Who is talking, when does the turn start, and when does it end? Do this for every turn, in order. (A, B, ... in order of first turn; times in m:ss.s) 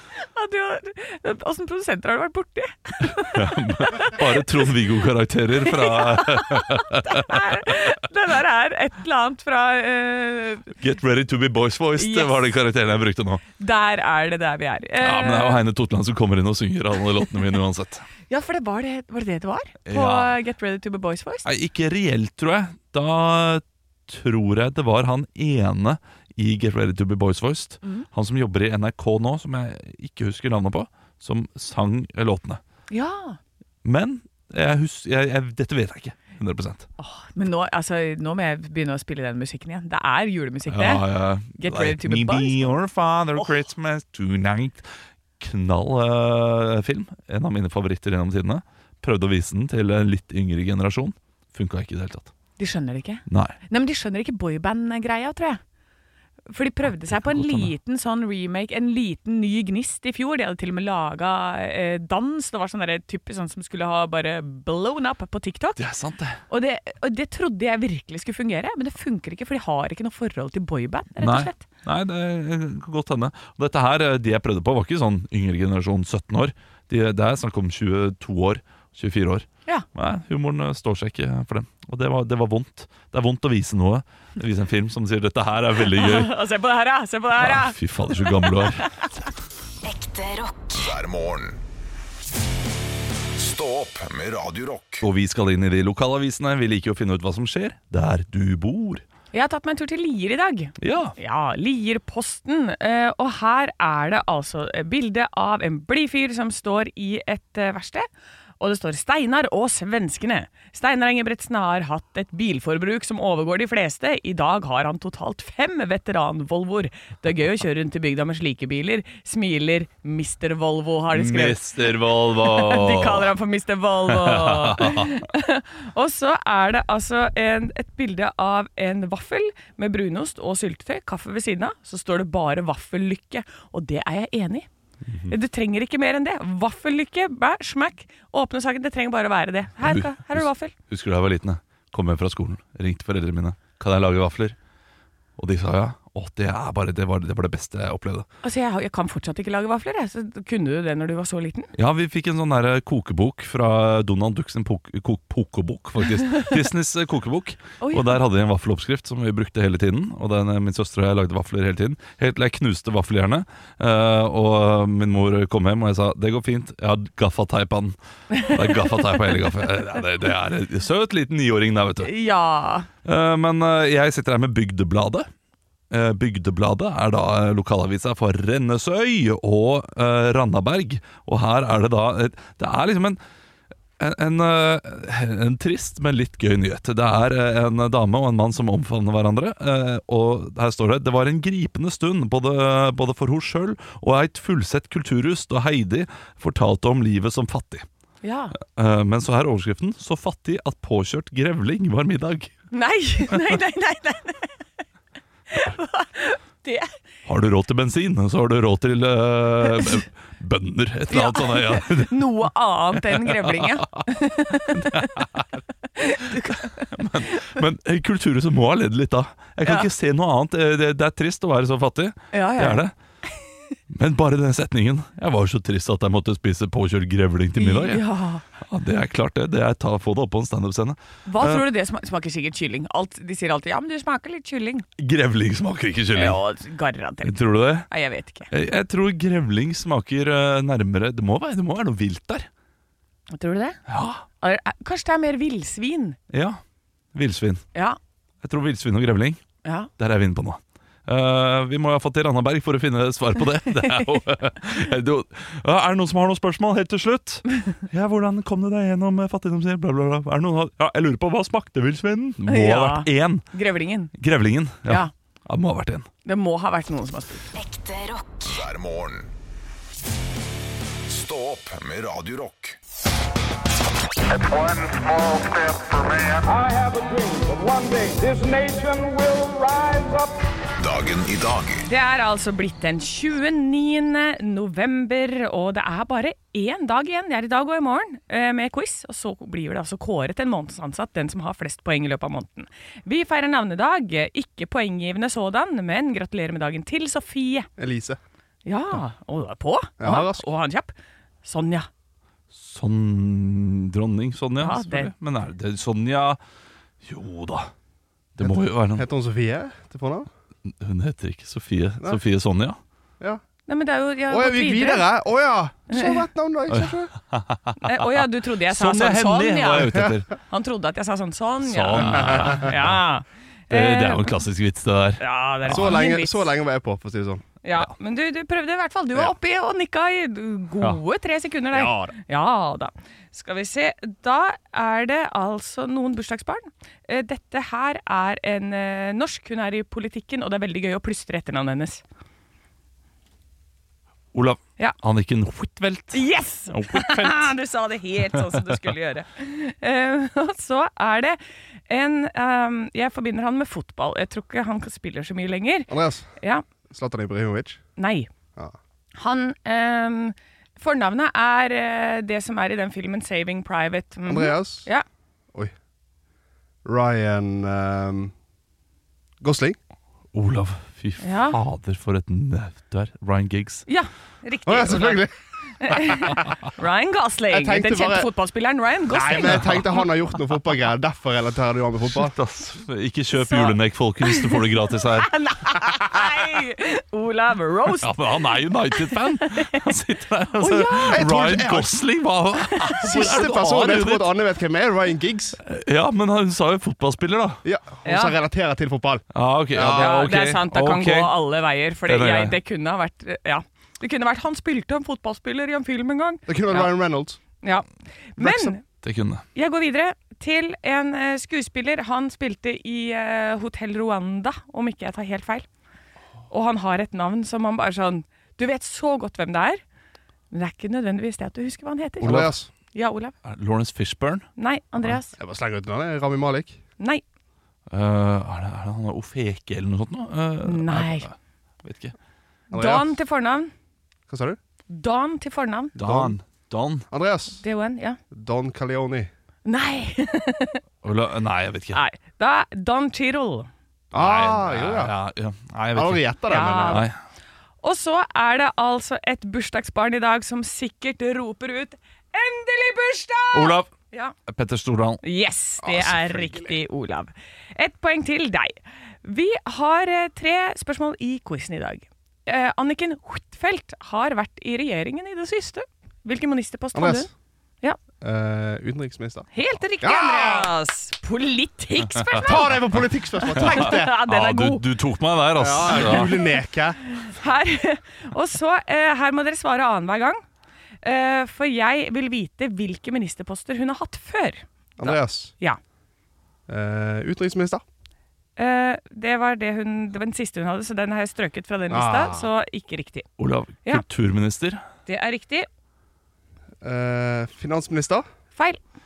0:00.2-0:04.4 A
0:03.3-0:07.6 B
0:05.6-0:10.7 A
0:10.8-0:13.4 B
0:12.0-0:12.5 A
0:13.6-0:15.6 A
0:15.0-0:18.0 B
0:18.3-0:21.5 A
0:19.9-0:20.4 B
0:21.4-0:32.6 B
0:32.9-0:33.4 A
0:33.8-0:36.9 B
0:37.0-0:41.0 A
0:40.7-0:44.9 B
0:41.6-0:42.7 A
0:45.4-0:52.3 B
0:52.6-0:55.6 A
0:53.3-0:53.6 B
0:56.5-1:05.8 A
0:56.9-0:57.7 B
1:05.8-1:06.4 B
1:06.5-1:11.6 A
1:11.2-1:26.3 B
1:25.9-1:29.1 A
1:27.4-1:28.9 B
1:29.8-1:30.8 C
1:30.8-1:31.6 D
1:33.4-1:35.0 D
1:35.0-1:39.0 B
1:39.3-1:48.1 A
1:40.8-1:41.2 B
1:48.6-2:14.7 A
2:01.1-2:03.3 B
2:04.1-2:05.2 B
2:15.1-2:15.3 B
2:15.3-2:20.7 A
2:19.8-2:24.6 B
2:25.4-2:28.3 B
2:28.4-2:31.7 A
2:31.8-2:52.1 B
2:37.8-2:38.2 A
2:52.0-2:52.9 A
2:53.0-2:55.3 B
2:55.9-3:03.2 B
3:04.0-3:17.9 B
3:18.2-3:18.6 A
3:18.6-3:22.5 B
3:22.7-3:24.6 A
3:25.5-3:27.0 A
3:27.3-3:32.2 B
3:29.7-3:30.0 A
3:31.1-3:35.2 A
3:33.0-3:34.0 B
3:34.8-3:35.4 B
3:36.0-3:36.9 A
3:36.8-3:42.9 B
3:42.3-3:42.8 A
3:43.9-3:48.0 B
3:47.6-3:48.4 A
3:48.6-3:51.6 B
3:51.3-3:54.9 A
3:55.0-3:56.4 B
3:56.1-3:58.5 A
3:57.2-3:57.9 B
3:58.5-4:02.5 B
4:03.3-4:03.8 A
4:03.9-4:04.2 B
4:04.4-4:06.2 A
4:06.3-4:06.6 B
4:07.1-4:07.7 B
4:08.4-4:09.4 B
4:09.6-4:09.9 A
4:10.0-4:23.5 B
4:22.5-4:24.1 A
4:24.1-4:26.1 B
4:24.8-4:25.1 A
4:26.2-4:27.5 A
4:27.5-4:28.6 C
4:28.5-4:29.3 D
4:31.1-4:32.8 D
4:34.5-4:40.3 E
4:40.8-4:41.8 D
4:41.8-4:57.7 A
4:57.8-4:58.2 F
4:58.7-5:00.9 A
5:00.0-5:00.5 F
5:01.4-5:01.9 A
5:02.5-5:06.4 B
5:04.6-5:05.1 A
5:07.0-5:07.7 B
5:08.4-5:09.1 B
5:08.4-5:10.3 F
5:10.7-5:12.8 B
5:13.7-5:15.1 A
5:14.3-5:17.1 F
5:15.9-5:16.2 A
5:16.7-5:18.1 B
5:17.8-5:24.3 A
5:18.7-5:20.3 B
5:21.6-5:23.0 B
5:23.7-5:26.0 B
5:25.2-5:26.5 A
5:25.7-5:27.4 F
5:27.6-5:42.0 A
5:31.7-5:32.1 F
5:44.3-5:47.5 B
5:46.1-5:56.6 A
5:55.9-5:56.3 F
5:56.9-5:57.8 F
5:58.0-5:58.3 A
5:59.2-6:05.0 A
6:04.3-6:04.9 F
6:06.8-6:08.3 F
6:09.4-6:09.8 F
6:10.3-6:13.8 B
6:11.2-6:11.6 A
6:13.9-6:15.3 A
6:14.7-6:15.3 F
6:15.8-6:19.8 A
6:15.9-6:16.4 F
6:17.5-6:18.3 F
6:19.1-6:22.3 F
6:19.5-6:19.8 B
6:22.1-6:25.3 B
6:23.4-6:24.6 A
6:25.2-6:28.2 A
6:28.0-6:34.3 B
6:29.0-6:29.8 A
6:30.6-6:31.2 A
6:31.0-6:32.0 F
6:32.8-6:33.1 A
6:33.0-6:35.6 F
6:35.6-6:37.6 B
6:37.6-6:40.3 F
6:38.0-6:38.4 A
6:39.3-6:41.4 B
6:39.9-6:46.9 A
6:42.1-6:42.6 B
6:46.5-6:47.4 F
6:47.6-6:48.8 A
6:48.4-6:48.7 F
6:49.0-6:49.4 B
6:49.6-6:55.7 A
6:56.5-6:59.8 A
7:00.5-7:03.3 A
7:02.2-7:02.7 F
7:02.2-7:02.5 B
7:03.4-7:04.5 B
7:04.6-7:05.4 A
7:05.4-7:06.8 F
7:07.9-7:11.3 B
7:10.6-7:11.3 A
7:11.8-7:12.2 B
7:12.7-7:13.1 F
7:12.7-7:13.7 A
7:14.3-7:14.6 F
7:14.9-7:15.9 A
7:16.0-7:17.1 B
7:16.0-7:16.3 F
7:17.1-7:17.6 F
7:17.6-7:18.2 A
7:18.3-7:19.3 F
7:19.7-7:20.8 A
7:21.0-7:22.0 B
7:21.9-7:23.7 A
7:24.1-7:25.1 F
7:24.1-7:26.3 B
7:25.9-7:27.0 F
7:26.5-7:27.0 A
7:26.9-7:27.2 B
7:27.8-7:34.3 A
7:33.5-7:33.9 B
7:34.5-7:35.2 B
7:35.2-7:47.3 A
7:35.9-7:36.7 F
7:46.9-7:47.3 F
7:48.2-7:49.5 F
7:49.5-7:52.8 A
7:50.0-7:50.7 F
7:52.3-7:54.2 F
7:52.4-7:52.7 B
7:53.4-7:54.8 A
7:53.6-7:56.4 B
7:55.6-7:57.0 F
7:55.9-7:56.3 A
7:57.1-8:00.4 A
8:01.0-8:05.8 A
8:05.0-8:05.5 F
8:06.7-8:07.8 F
8:08.6-8:13.3 A
8:11.9-8:12.5 F
8:13.4-8:14.8 B
8:15.1-8:15.7 A
8:16.8-8:18.2 F